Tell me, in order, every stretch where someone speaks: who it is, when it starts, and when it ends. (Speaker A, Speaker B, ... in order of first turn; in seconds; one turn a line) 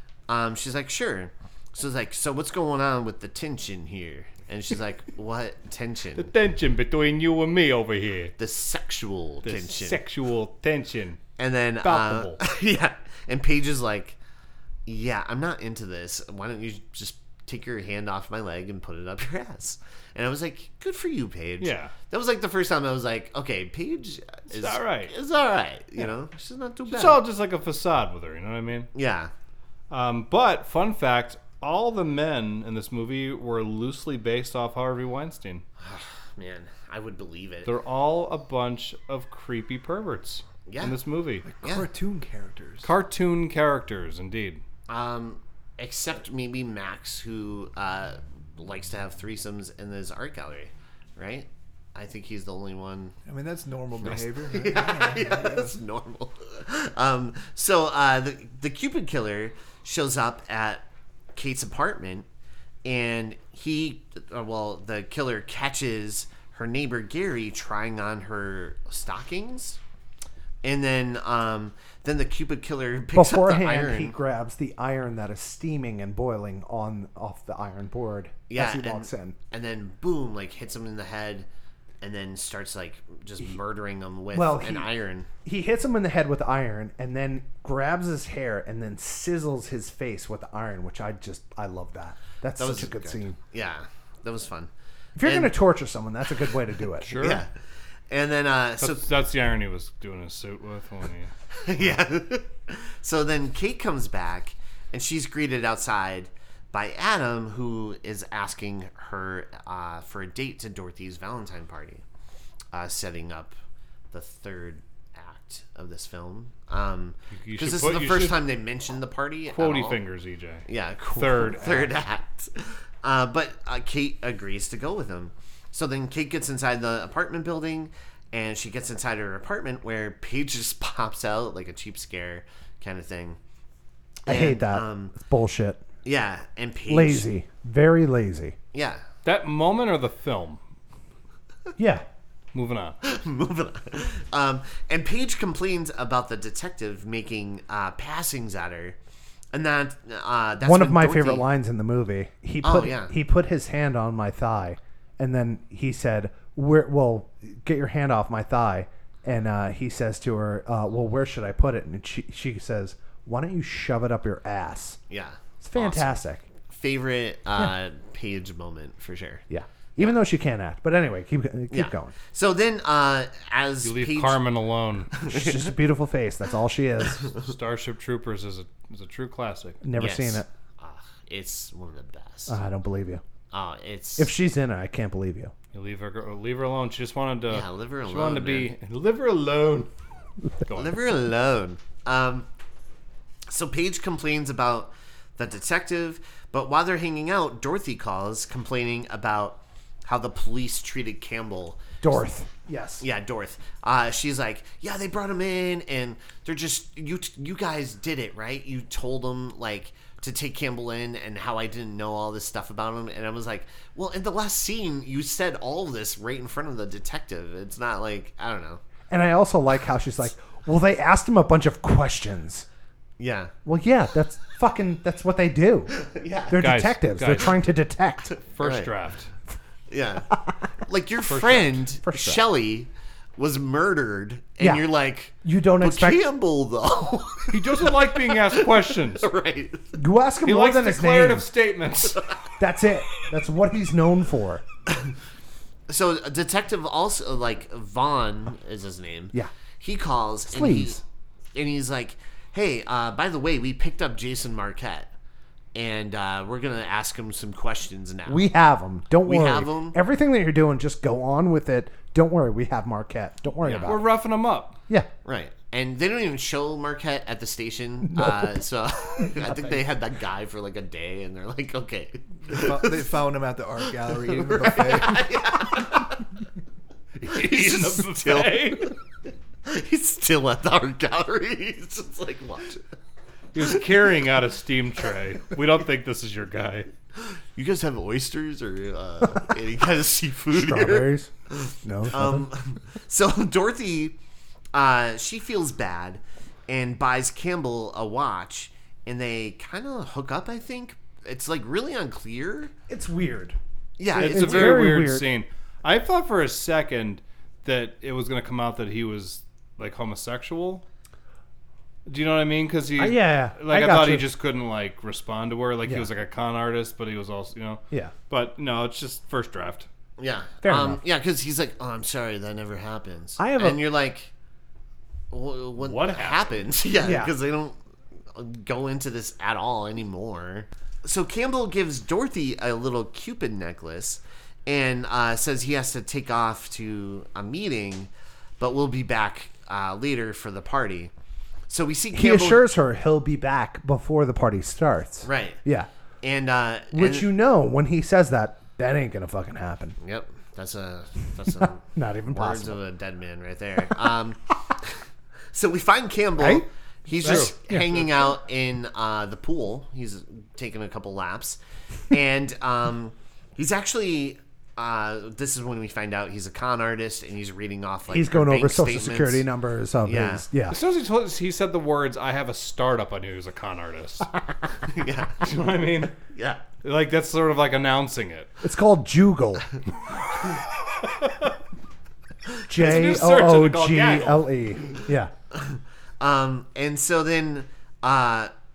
Speaker A: 0.3-6.3
Speaker B: 6.2-8.3
Speaker A: 8.4-10.0
Speaker B: 9.4-11.2
Speaker A: 11.4-14.2
Speaker B: 11.8-12.4
Speaker A: 14.8-27.2
Speaker B: 21.6-21.9
Speaker B: 24.5-25.1
Speaker B: 26.9-28.9
Speaker A: 28.9-29.3
Speaker B: 29.9-35.6
Speaker A: 35.8-37.7
Speaker B: 37.6-41.5
Speaker A: 40.7-41.0
Speaker C: 41.4-42.9
Speaker B: 42.8-44.6
Speaker A: 44.9-53.1
Speaker C: 53.2-55.7
Speaker A: 54.0-62.2
Speaker A: 62.8-69.8
Speaker A: 70.6-74.2
Speaker D: 73.1-79.3
Speaker A: 78.5-81.5
Speaker A: 82.0-85.3
Speaker D: 84.3-84.9
Speaker D: 85.4-93.4
Speaker A: 92.6-94.7
Speaker D: 95.2-97.2
Speaker A: 95.2-95.5
Speaker B: 97.0-97.4
Speaker A: 97.1-97.5
Speaker A: 98.1-99.0
Speaker B: 98.8-101.3
Speaker A: 101.5-112.0
Speaker A: 112.7-113.5
Speaker A: 114.1-120.0
Speaker B: 117.3-118.4
Speaker B: 119.5-121.9
Speaker A: 120.7-133.4
Speaker A: 134.2-135.1
Speaker D: 134.2-135.8
Speaker A: 136.0-137.2
Speaker D: 136.9-138.6
Speaker A: 138.7-139.0
Speaker B: 139.2-140.6
Speaker D: 141.8-142.0
Speaker B: 142.5-143.0
Speaker A: 143.0-149.0
Speaker A: 149.5-151.4
Speaker D: 150.6-165.0
Speaker A: 152.6-153.1
Speaker A: 165.1-166.1
Speaker D: 165.6-166.4
Speaker A: 166.7-169.4
Speaker D: 169.5-172.1
Speaker A: 171.7-174.4
Speaker B: 173.8-175.1
Speaker A: 175.1-175.7
Speaker D: 175.3-177.3
Speaker B: 177.3-179.8
Speaker D: 179.8-180.5
Speaker A: 180.0-182.6
Speaker D: 182.5-183.2
Speaker A: 183.5-184.3
Speaker D: 184.2-185.5
Speaker B: 185.7-189.9
Speaker A: 187.5-188.7
Speaker B: 190.6-191.0
Speaker A: 190.7-192.5
Speaker A: 193.5-202.2
Speaker D: 202.0-203.0
Speaker A: 203.0-218.8
Speaker D: 219.1-222.7
Speaker A: 223.2-223.5
Speaker D: 223.6-225.9
Speaker A: 225.9-226.6
Speaker D: 226.5-228.3
Speaker B: 226.6-227.6
Speaker B: 228.5-229.3
Speaker A: 228.6-228.9
Speaker A: 229.9-240.0
Speaker B: 231.3-231.8
Speaker D: 232.0-232.4
Speaker D: 235.4-236.2
Speaker B: 237.5-239.3
Speaker D: 239.9-241.5
Speaker B: 240.4-242.2
Speaker D: 242.6-244.6
Speaker A: 245.9-251.0
Speaker D: 250.5-251.0
Speaker A: 251.5-255.1
Speaker A: 255.7-258.5
Speaker D: 258.2-264.1
Speaker A: 259.2-260.0
Speaker A: 263.6-263.9
Speaker B: 263.8-264.8
Speaker A: 265.2-273.1
Speaker D: 268.1-268.6
Speaker D: 269.2-269.7
Speaker C: 272.4-275.2
Speaker A: 274.0-276.3
Speaker B: 277.2-278.9
Speaker A: 277.3-279.0
Speaker A: 279.6-282.8
Speaker B: 283.5-286.9
Speaker A: 287.2-294.1
Speaker D: 290.5-291.3
Speaker D: 291.8-292.5
Speaker A: 294.7-302.7
Speaker D: 302.9-303.6
Speaker A: 304.0-304.9
Speaker B: 304.1-310.8
Speaker D: 304.1-305.3
Speaker B: 312.1-319.9
Speaker D: 313.0-314.2
Speaker A: 320.2-324.3
Speaker D: 320.6-321.0
Speaker D: 323.4-323.8
Speaker A: 325.3-327.8
Speaker B: 325.8-326.6
Speaker D: 327.0-327.3
Speaker A: 328.3-341.1
Speaker A: 341.7-342.6
Speaker D: 342.1-345.9
Speaker A: 345.2-345.6
Speaker A: 346.2-347.3
Speaker D: 346.9-349.9
Speaker A: 350.0-355.0
Speaker D: 351.9-352.8
Speaker A: 355.5-361.6
Speaker D: 356.4-356.6
Speaker B: 357.2-357.5
Speaker D: 357.2-358.1
Speaker A: 362.1-369.4
Speaker D: 368.1-370.8
Speaker A: 370.0-370.4
Speaker B: 370.7-374.3
Speaker A: 374.9-375.4
Speaker B: 375.4-376.1
Speaker A: 376.3-376.6
Speaker B: 376.8-378.6
Speaker D: 378.6-379.7
Speaker B: 381.0-381.5
Speaker D: 382.7-385.3
Speaker B: 382.7-384.5
Speaker A: 385.5-388.5